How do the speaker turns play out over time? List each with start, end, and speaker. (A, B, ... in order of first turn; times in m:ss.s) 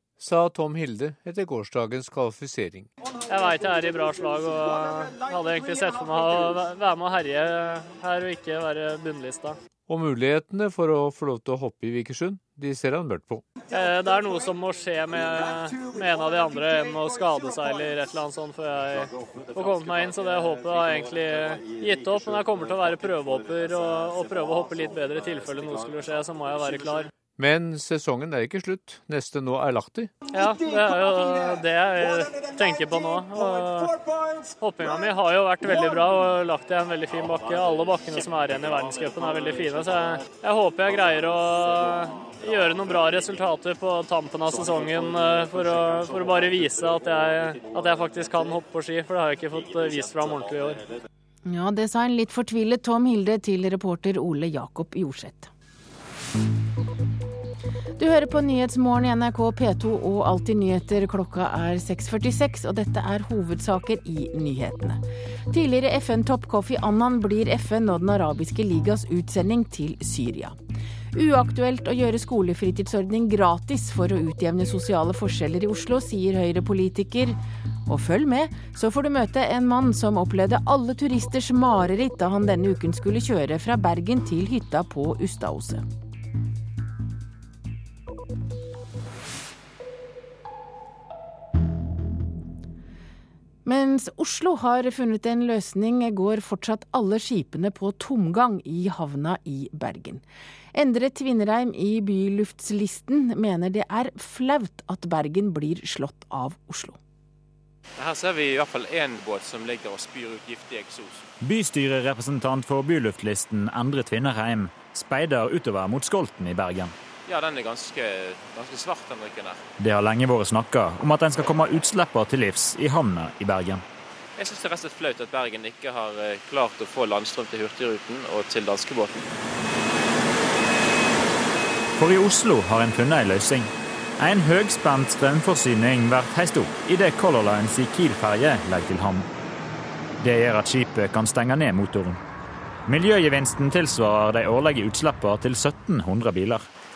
0:00.2-0:02.9 A
0:03.3-0:09.6 B
0:09.9-0:13.4 A
0:13.7-0:27.1 B
0:27.4-0:30.1 A
0:30.3-0:33.9 B
0:34.6-0:50.8 B
0:51.5-0:55.5 C
0:58.0-1:05.0 C
1:05.5-1:10.6 C
1:11.1-1:25.8 C
1:33.6-1:40.2 C
1:40.7-1:47.0 C
1:48.0-1:51.1 D
1:51.4-1:56.9 E
1:57.3-1:59.5 D
1:59.8-2:03.8 E
2:04.4-2:09.1 D
2:12.0-2:19.3 E
2:20.2-2:22.2 E
2:22.9-2:26.7 E